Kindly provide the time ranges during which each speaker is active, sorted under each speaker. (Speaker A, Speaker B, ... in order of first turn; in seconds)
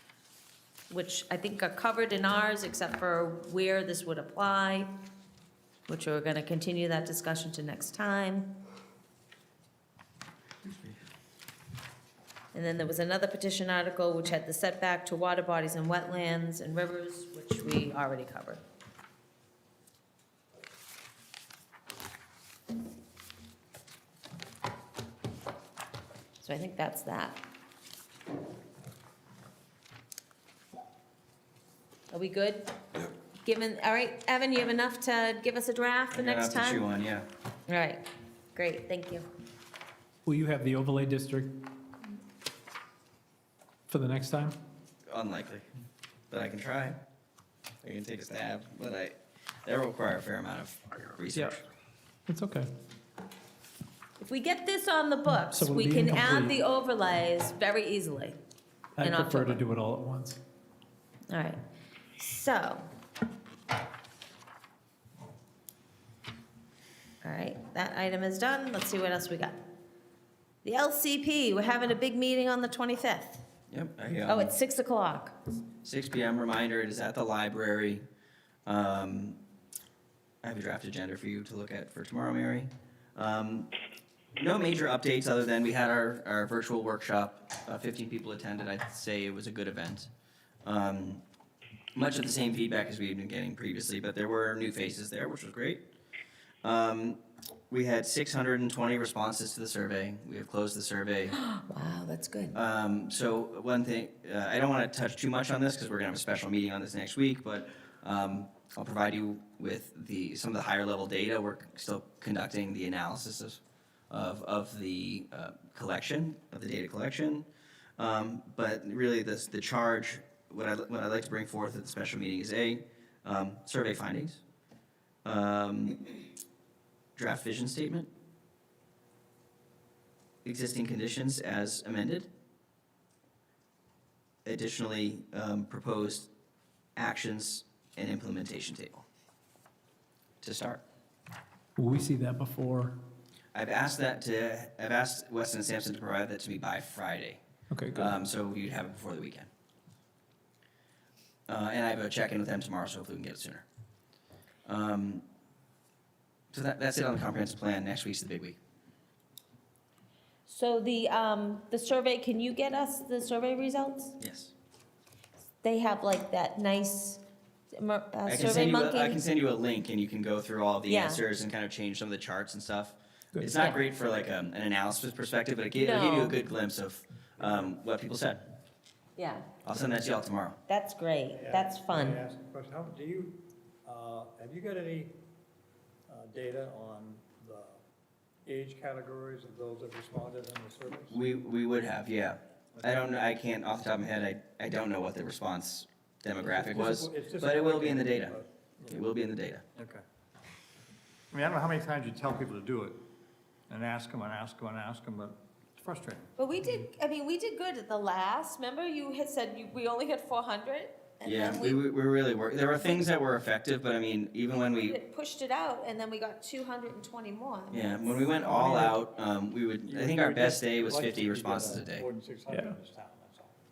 Speaker A: 0.9-4.9, 5.9-8.6, 12.5-18.6, 26.4-27.4, 32.1-32.7, 33.4-36.8, 37.7-39.2, 54.2-58.4, 59.0-59.6, 61.3-61.6, 62.2-62.9, 67.2-69.6, 70.6-73.4, 74.3-75.4, 101.3-102.5, 160.4-164.2, 165.6-167.2, 167.8-169.2, 170.9-171.2, 175.8-176.3, 179.2-179.4, 180.7-182.2, 206.4-211.8, 214.7-218.2
Speaker B: 36.1-37.2, 45.1-45.6, 46.3-47.0, 47.8-51.6, 73.7-74.5, 75.8-78.0, 78.7-79.4, 80.4-83.7, 84.4-90.1, 90.6-91.2, 91.9-95.8, 96.6-97.2, 97.7-101.3, 102.5-113.6, 114.1-124.4, 125.2-126.0, 127.2-128.1, 130.4-132.3, 134.4-136.3, 136.9-139.0, 140.4-140.8, 143.5-147.4, 147.9-149.5, 151.5-153.6, 154.6-155.2, 156.5-158.6, 164.2-164.5, 168.2-178.4, 179.6-180.6, 191.1-198.3, 198.9-199.6, 211.2-214.9, 217.7-222.0
Speaker C: 40.2-41.6, 43.9-44.6, 52.3-52.7, 55.4-56.5, 59.0-60.4, 141.8-143.0, 147.7-148.1, 222.5-222.8
Speaker D: 177.4-177.7, 181.3-185.1, 186.1-187.8, 188.4-191.2, 192.8-193.0, 196.4-199.0, 199.7-200.0, 201.3-203.0, 203.7-206.8, 218.4-219.0, 219.8-223.5